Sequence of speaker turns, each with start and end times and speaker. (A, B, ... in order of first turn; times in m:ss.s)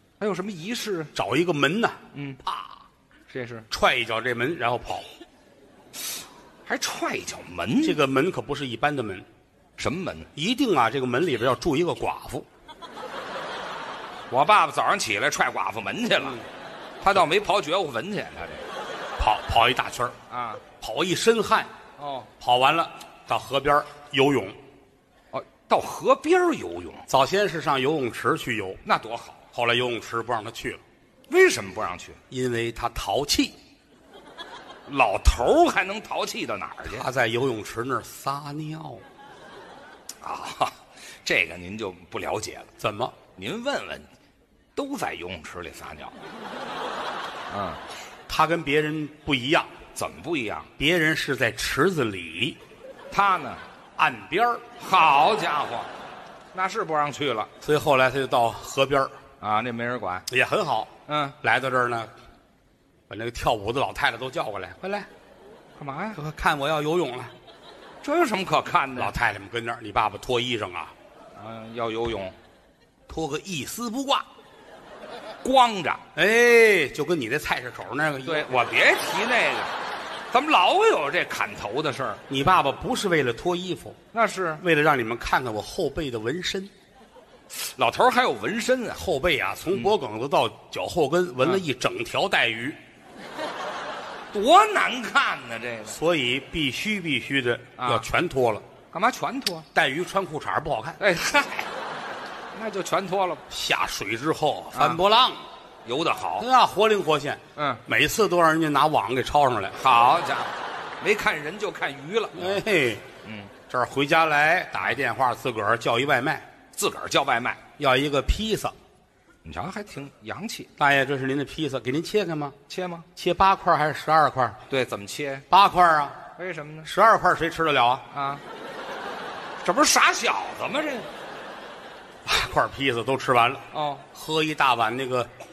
0:00.2-0:01.1 A
0:01.1-0:02.7 B
0:02.1-0:02.4 A
0:03.3-0:03.7 A
0:03.7-0:05.0 B
0:06.6-0:08.0 A
0:07.8-0:09.3 B
0:09.8-0:10.3 A
0:10.3-0:12.4 B
0:14.3-0:16.4 A
0:17.0-0:18.6 A
0:19.2-0:20.2 B
0:20.3-0:20.6 A
0:20.8-0:21.7 B
0:22.0-0:22.3 A
0:22.4-0:24.6 B
0:25.3-0:27.0 A
0:27.1-0:28.8 B
0:28.8-0:29.4 A
0:29.5-0:30.8 B
0:31.3-0:32.2 A
0:32.3-0:33.5 B
0:34.9-0:37.1 A
0:36.8-0:39.0 B
0:40.2-0:42.7 A
0:42.8-0:43.1 B
0:43.4-0:44.1 A
0:44.8-0:46.2 A
0:47.5-0:47.8 A
0:48.3-0:49.7 B
0:49.9-0:50.7 A
0:50.8-0:52.6 B
0:53.1-0:53.6 A
0:54.0-0:54.6 B
0:54.8-0:55.9 A
0:56.5-0:57.5 A
0:57.6-0:59.1 B
0:59.4-1:00.2 A
1:00.3-1:02.1 B
1:01.1-1:01.4 A
1:03.1-1:05.1 B
1:05.8-1:06.2 A
1:06.1-1:07.3 B
1:08.0-1:09.1 A
1:09.0-1:10.9 B
1:11.3-1:12.4 A
1:13.1-1:14.2 B
1:15.4-1:16.0 A
1:16.1-1:18.5 B
1:18.2-1:19.7 A
1:20.3-1:22.2 A
1:22.3-1:24.0 B
1:24.1-1:24.6 A
1:24.6-1:26.7 B
1:27.5-1:29.0 A
1:29.0-1:32.8 B
1:34.3-1:36.0 A
1:35.9-1:38.6 B
1:37.8-1:38.1 A
1:38.9-1:39.7 A
1:39.7-1:41.0 B
1:41.0-1:41.7 A
1:42.5-1:43.4 A
1:43.5-1:45.4 B
1:44.7-1:45.0 A
1:45.8-1:46.5 A
1:46.4-1:49.8 B
1:47.6-1:47.8 A
1:49.8-1:52.6 A
1:52.3-1:53.0 B
1:53.2-1:53.5 A
1:53.7-1:56.4 B
1:56.7-1:57.6 A
1:57.8-1:58.8 B
1:59.4-2:00.7 A
2:00.8-2:02.6 B
2:02.7-2:03.1 A
2:03.2-2:04.6 B
2:04.7-2:05.4 A
2:05.5-2:06.2 B
2:06.4-2:06.9 A
2:06.8-2:08.0 B
2:08.1-2:08.4 A
2:09.6-2:11.1 A
2:12.2-2:15.3 B
2:13.7-2:14.0 A